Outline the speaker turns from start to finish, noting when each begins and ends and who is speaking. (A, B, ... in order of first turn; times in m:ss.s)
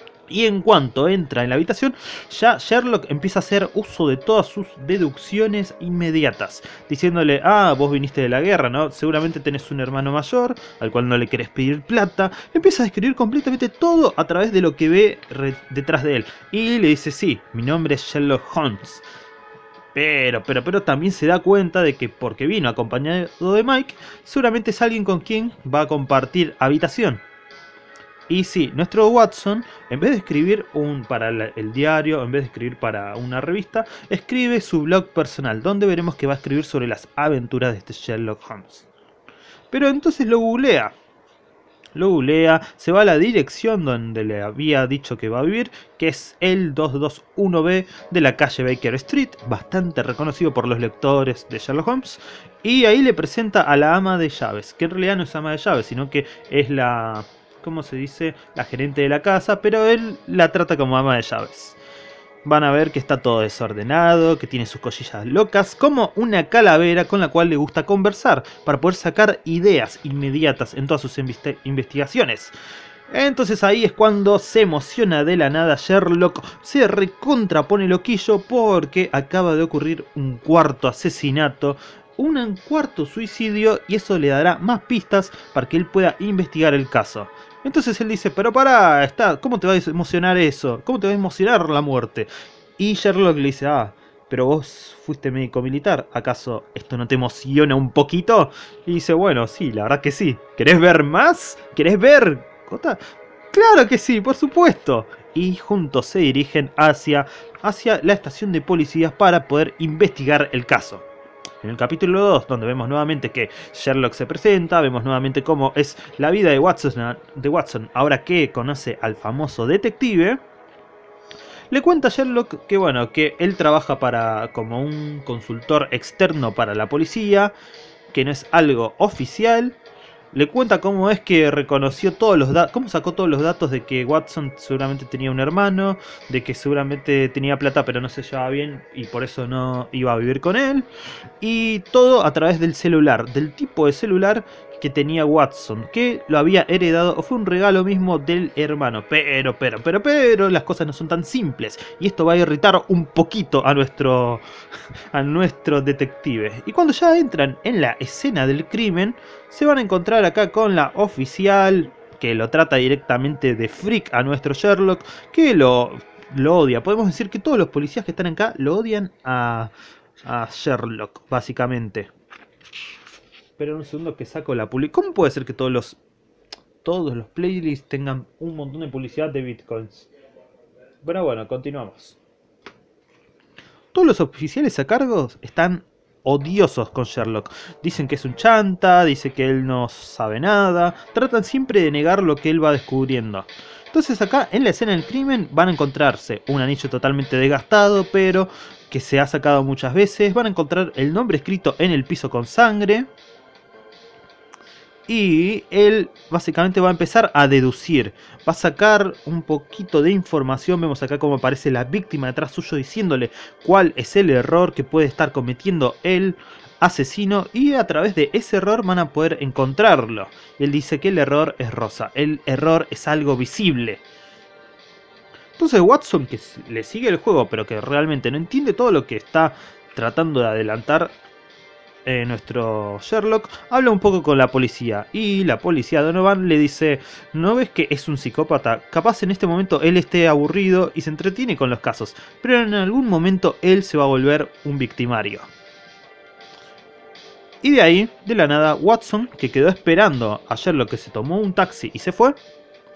0:00.3-0:19.0 A
0:19.9-0:27.2 A
0:28.3-0:38.9 A
0:39.7-0:41.0 A
0:42.0-1:01.8 A
1:02.4-1:12.5 A
1:13.1-1:43.0 A
1:43.5-1:51.1 A
1:51.6-2:00.4 A
2:01.7-2:07.5 A
2:08.1-2:09.8 A
2:10.3-2:20.9 A
2:21.4-2:34.4 A
2:35.1-2:49.7 A
2:50.2-2:52.1 A
2:53.6-2:56.0 A
2:56.8-3:00.1 A
3:01.0-3:02.2 A
3:03.9-3:23.1 A
3:25.1-3:44.0 A
3:45.6-3:51.2 A
3:52.0-4:05.5 A
4:07.6-4:12.4 A